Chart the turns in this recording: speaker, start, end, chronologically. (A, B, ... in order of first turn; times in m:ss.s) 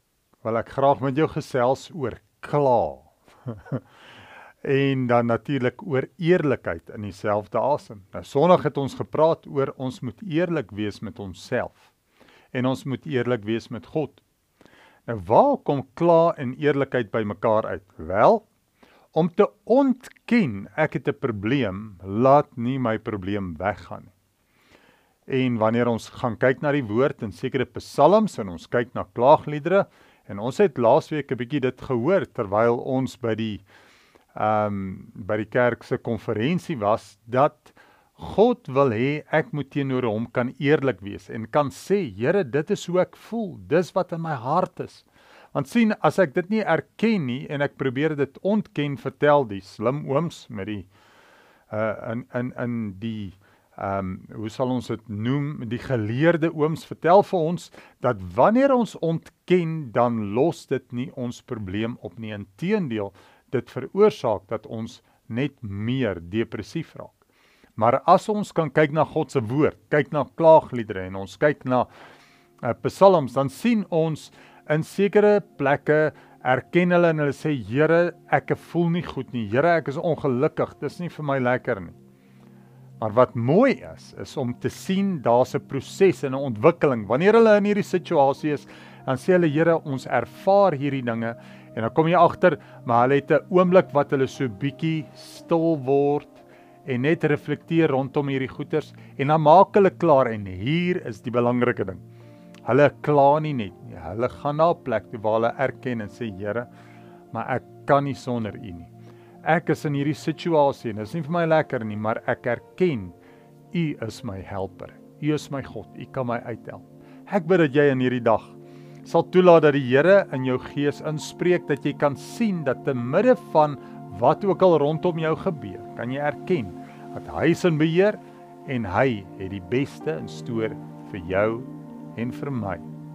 0:00.4-0:03.8 A
0:04.6-0:11.9 A
0:12.5-0:14.2 A
0:15.1-0:18.4 A
0:19.1-0:24.1 A
0:25.3-0:33.6 A
0:34.4-0:50.9 A
0:51.7-1:07.2 A
1:07.8-1:11.9 A
1:12.6-1:22.0 A
1:23.0-1:42.0 A
1:42.7-1:46.7 A
1:47.3-1:48.9 A
1:49.4-1:53.2 A
1:53.7-2:12.9 A